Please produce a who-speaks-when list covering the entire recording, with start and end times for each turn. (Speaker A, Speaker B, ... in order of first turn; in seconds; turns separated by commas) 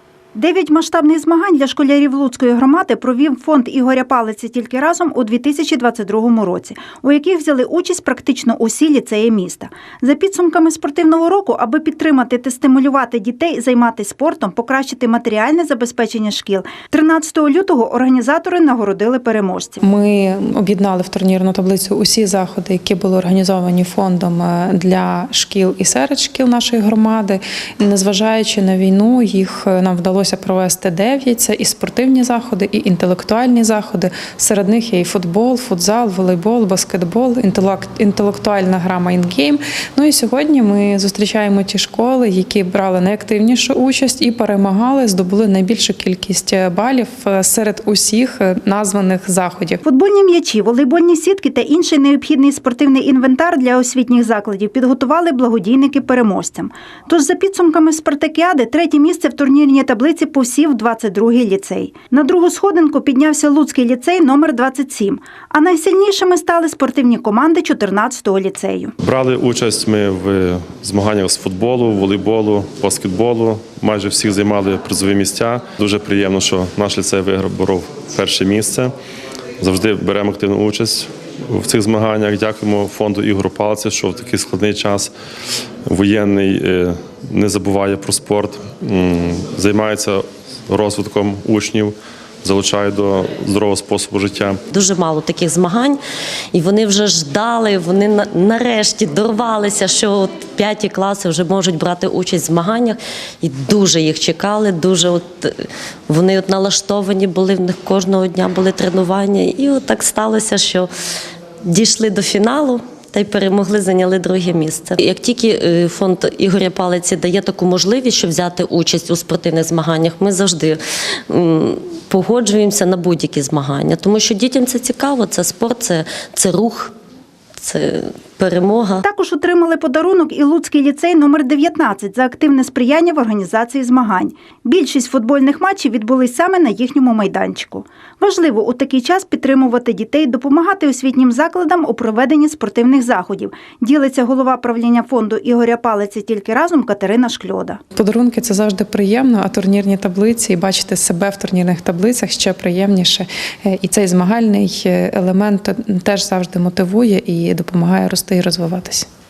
Speaker A: 0.3-19.8, Speaker B: 19.8-49.8, Speaker A: 49.8-68.9, Speaker C: 69.0-78.9, Speaker C: 79.6-85.1, Speaker C: 85.9-94.6, Speaker D: 94.7-96.0, Speaker D: 96.5-110.9, Speaker D: 111.6-126.9, Speaker D: 127.6-129.0, Speaker A: 129.0-147.8, Speaker B: 148.0-159.1